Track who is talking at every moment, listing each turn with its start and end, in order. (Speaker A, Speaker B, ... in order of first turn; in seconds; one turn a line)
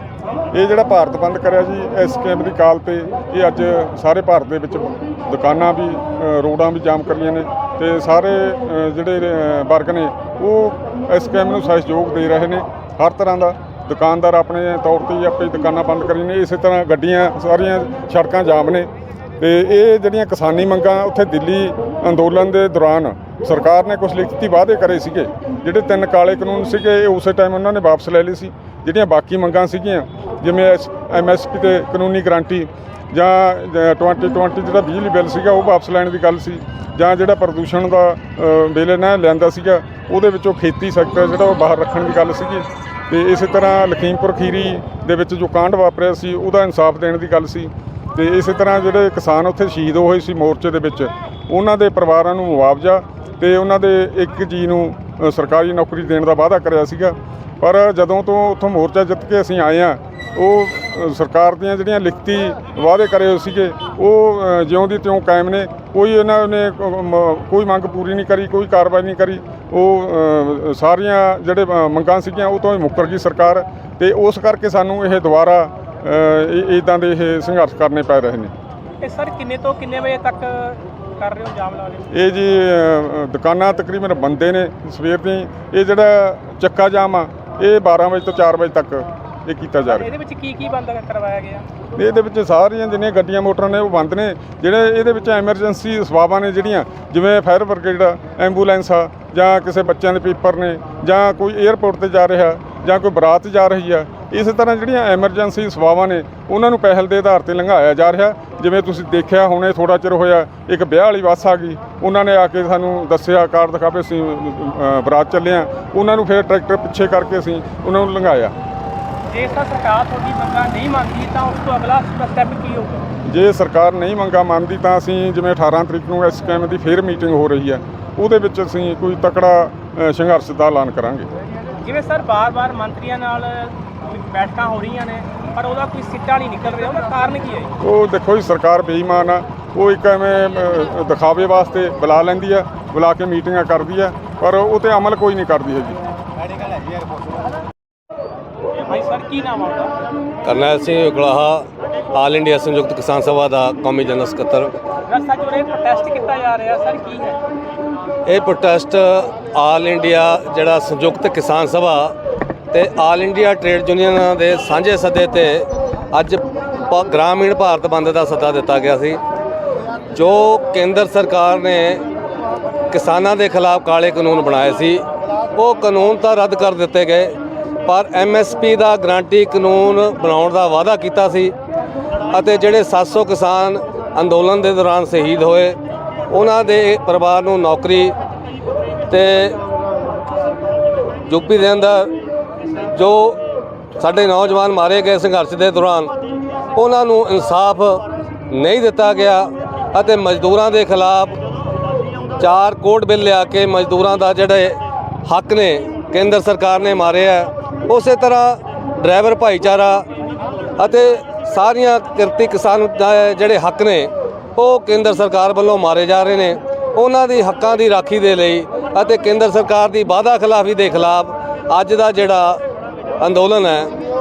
Speaker A: 0.5-18.9
Speaker A: 19.4-78.5
Speaker B: 79.0-82.1
Speaker A: 82.1-90.1
Speaker B: 89.9-91.7
Speaker A: 92.0-118.5
Speaker B: 119.3-123.0
Speaker A: 123.2-131.3
Speaker B: 131.8-137.7
Speaker A: 137.8-146.0
Speaker B: 148.8-149.9
Speaker C: 150.4-154.7
Speaker B: 155.1-157.4
Speaker C: 158.2-162.2
Speaker C: 162.7-169.2
Speaker C: 170.1-172.0
Speaker C: 172.9-181.5
Speaker C: 182.3-185.8
Speaker C: 186.3-188.1
Speaker C: 189.1-189.6
Speaker C: 191.3-192.1
Speaker C: 192.9-193.4
Speaker C: 194.0-196.1
Speaker C: 196.7-201.4
Speaker C: 202.4-210.1
Speaker C: 210.8-222.6
Speaker C: 223.2-223.9